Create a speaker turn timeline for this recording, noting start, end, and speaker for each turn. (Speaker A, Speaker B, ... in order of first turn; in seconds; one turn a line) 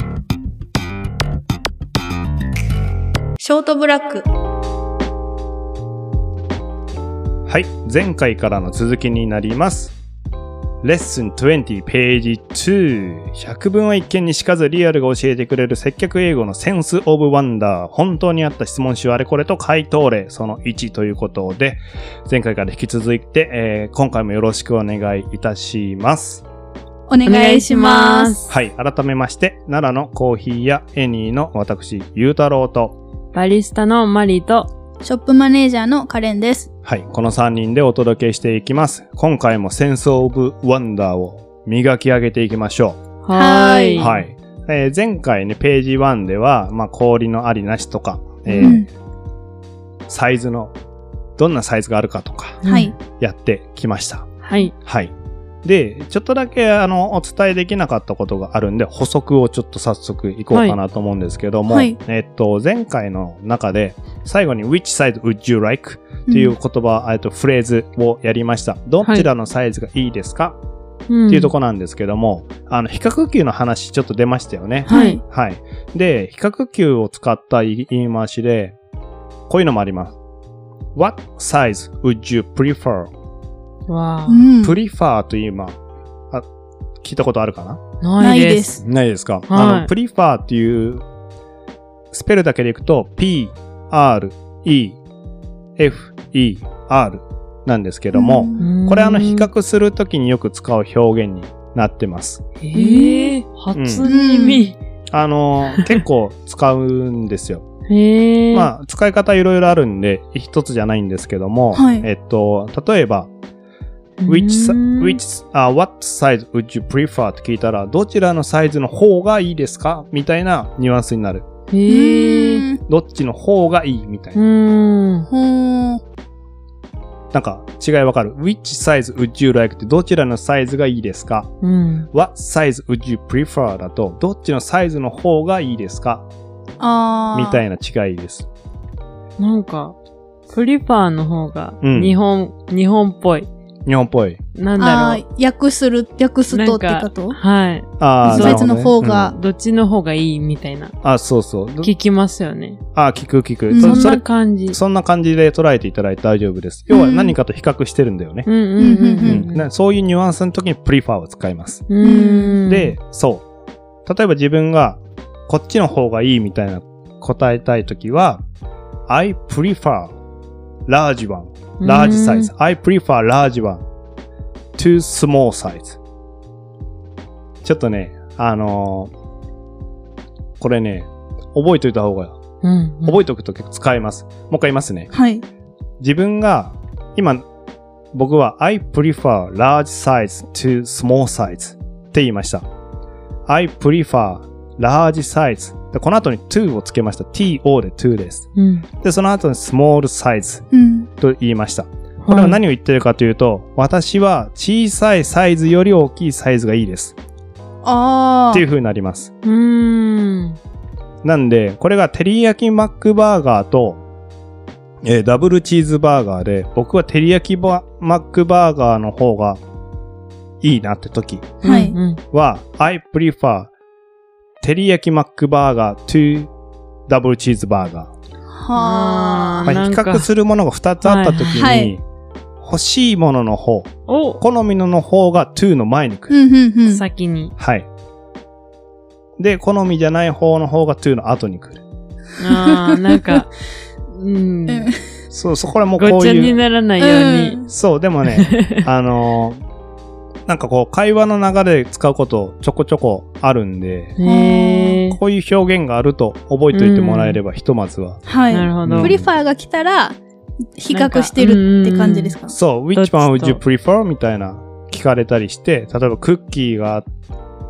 Speaker A: 3.4-4.3
Speaker B: 7.5-9.9
Speaker B: 10.8-26.4
Speaker A: 27.1-28.4
Speaker C: 27.2-28.5
Speaker B: 28.5-33.0
Speaker C: 33.3-34.7
Speaker A: 35.0-36.7
Speaker B: 36.9-43.0
Speaker C: 43.2-44.2
Speaker A: 43.3-44.1
Speaker B: 44.0-48.8
Speaker C: 48.5-48.8
Speaker A: 48.6-48.9
Speaker B: 50.1-50.7
Speaker B: 51.4-52.6
Speaker C: 52.6-52.9
Speaker A: 52.6-53.0
Speaker B: 53.2-55.1
Speaker C: 54.5-54.7
Speaker B: 55.6-70.6
Speaker A: 61.7-62.0
Speaker A: 66.3-66.5
Speaker C: 69.0-69.3
Speaker C: 71.1-71.5
Speaker B: 71.3-78.8
Speaker C: 74.9-75.2
Speaker A: 74.9-75.2
Speaker B: 79.5-80.2
Speaker B: 81.0-83.1
Speaker C: 83.9-84.5
Speaker A: 84.3-84.8
Speaker B: 84.6-85.8
Speaker B: 87.0-87.8
Speaker C: 88.0-88.8
Speaker A: 88.2-88.8
Speaker B: 88.8-91.0
Speaker C: 89.5-89.9
Speaker B: 92.1-95.0
Speaker B: 95.8-102.4
Speaker A: 98.1-98.7
Speaker C: 98.6-99.5
Speaker C: 102.6-104.8
Speaker A: 102.7-103.4
Speaker B: 103.7-104.1
Speaker A: 104.0-104.7
Speaker B: 105.1-107.7
Speaker C: 105.7-106.0
Speaker C: 107.9-108.7
Speaker B: 108.5-113.3
Speaker A: 111.7-112.1
Speaker C: 114.2-115.2
Speaker B: 114.3-121.5
Speaker C: 121.7-122.7
Speaker A: 121.9-122.8
Speaker B: 122.9-124.4
Speaker C: 124.3-125.3
Speaker A: 125.3-126.0
Speaker B: 127.3-131.5
Speaker C: 131.6-132.1
Speaker B: 132.1-136.3
Speaker A: 136.8-137.6
Speaker B: 137.3-138.5
Speaker C: 139.4-140.0
Speaker C: 140.5-143.5
Speaker B: 141.8-142.2
Speaker B: 143.9-144.4
Speaker C: 144.6-145.2
Speaker A: 144.8-147.4
Speaker C: 146.5-150.9
Speaker B: 148.0-149.3
Speaker A: 148.2-149.4
Speaker B: 151.0-151.9
Speaker C: 151.8-152.8
Speaker B: 152.9-158.5
Speaker A: 153.7-154.0
Speaker C: 153.8-154.8
Speaker A: 156.9-157.3
Speaker C: 158.5-159.7
Speaker A: 158.8-159.5
Speaker B: 159.2-161.8
Speaker C: 161.9-162.9
Speaker A: 162.0-162.6
Speaker B: 162.7-163.4
Speaker B: 164.1-168.4
Speaker B: 169.1-170.1
Speaker B: 170.9-173.8
Speaker C: 171.8-172.5
Speaker B: 174.8-176.0
Speaker B: 177.6-179.1
Speaker B: 180.6-182.4
Speaker C: 182.6-183.2
Speaker B: 183.0-185.1
Speaker A: 185.1-185.4
Speaker B: 186.0-187.4
Speaker B: 188.1-192.7
Speaker B: 193.5-198.5
Speaker C: 198.6-198.9
Speaker B: 199.0-200.6
Speaker A: 200.7-201.1
Speaker B: 201.2-207.2
Speaker C: 202.2-202.6
Speaker A: 207.8-208.6
Speaker B: 208.5-209.3
Speaker C: 209.4-210.6
Speaker B: 211.2-214.0
Speaker B: 215.1-219.6
Speaker B: 220.6-221.6
Speaker A: 221.6-222.0
Speaker C: 221.6-222.2
Speaker B: 222.3-223.7
Speaker B: 224.6-226.5
Speaker B: 227.1-228.1
Speaker A: 228.5-229.7
Speaker C: 228.8-230.3
Speaker B: 229.7-232.0
Speaker C: 231.0-231.7
Speaker A: 231.6-231.9
Speaker B: 232.6-236.3
Speaker C: 234.1-234.4
Speaker A: 236.3-237.0
Speaker C: 236.9-237.5
Speaker B: 237.6-237.9
Speaker B: 239.4-241.8
Speaker C: 242.4-243.5
Speaker A: 242.5-243.4
Speaker C: 244.1-244.9
Speaker A: 244.7-245.0
Speaker B: 245.3-246.6
Speaker C: 246.0-247.6
Speaker A: 247.0-247.7
Speaker B: 247.7-249.6
Speaker C: 248.4-248.8
Speaker B: 250.5-254.2
Speaker C: 254.2-255.2
Speaker A: 254.2-255.0
Speaker B: 255.1-258.2
Speaker C: 256.7-257.4
Speaker A: 258.3-260.2
Speaker C: 258.5-259.2
Speaker B: 258.8-259.2
Speaker A: 260.8-262.6
Speaker C: 260.9-262.4
Speaker B: 262.5-267.1
Speaker C: 262.9-263.6